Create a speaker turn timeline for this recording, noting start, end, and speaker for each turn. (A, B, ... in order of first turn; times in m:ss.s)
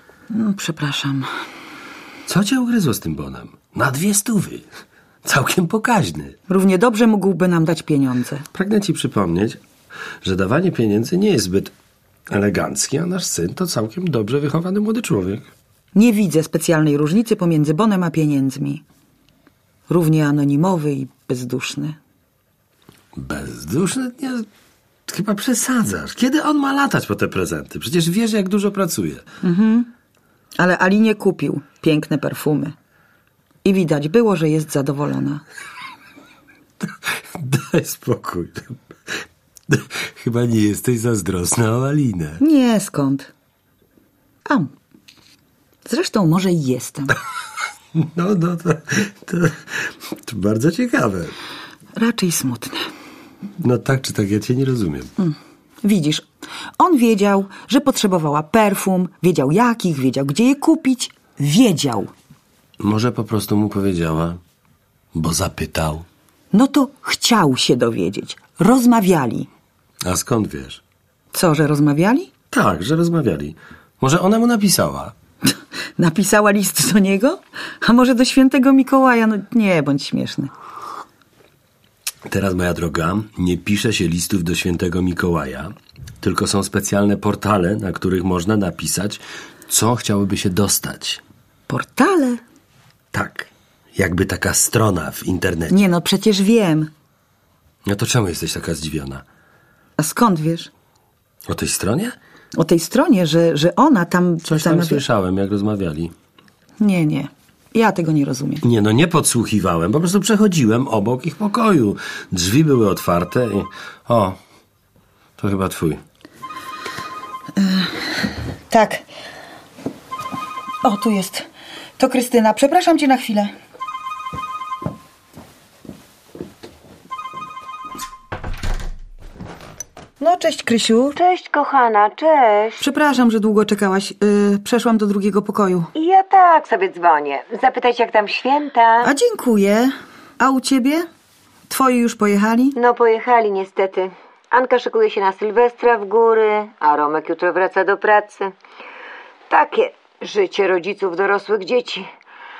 0:00.3-0:01.3 A
0:02.3-0:04.7 B
0:05.2-0:06.3 B
0:06.5-0:08.4 A
0:08.5-0:09.6 B
0:10.2-0:11.7 B
0:12.3-0:15.5 B
0:15.9-0:18.8 A
0:19.9-0:22.0 A
0:23.1-0:24.5 B
0:25.1-0:29.2 B
0:29.4-0:29.9 A
0:30.6-0:32.7 A
0:33.6-0:35.4 A
0:36.8-0:42.4 B
0:42.4-0:43.3 A
0:44.4-0:44.7 A
0:45.8-0:47.2 A
0:47.9-0:51.3 B
0:52.0-0:52.8 A
0:53.6-0:55.1 B
0:55.2-0:56.2 A
0:56.8-1:02.1 A
1:02.8-1:04.4 B
1:05.1-1:06.0 B
1:06.5-1:09.5 A
1:10.0-1:10.8 B
1:11.3-1:12.3 A
1:12.5-1:15.1 B
1:16.0-1:20.5 A
1:22.3-1:31.2 B
1:31.7-1:32.4 A
1:33.1-1:35.8 B
1:35.7-1:36.9 A
1:37.8-1:39.2 B
1:40.0-1:40.7 A
1:41.5-1:42.2 B
1:42.5-1:45.0 A
1:44.4-1:46.1 B
1:46.8-1:48.6 A
1:48.6-1:54.4 B
1:55.4-1:56.0 B
1:57.6-1:58.1 A
1:58.7-1:59.0 A
2:00.8-2:01.5 A
2:02.0-2:03.5 A
2:10.2-2:11.2 A
2:11.1-2:12.8 C
2:12.8-2:15.9 A
2:15.9-2:19.1 C
2:19.0-2:21.0 A
2:21.7-2:22.8 A
2:22.7-2:28.5 C
2:29.5-2:32.1 C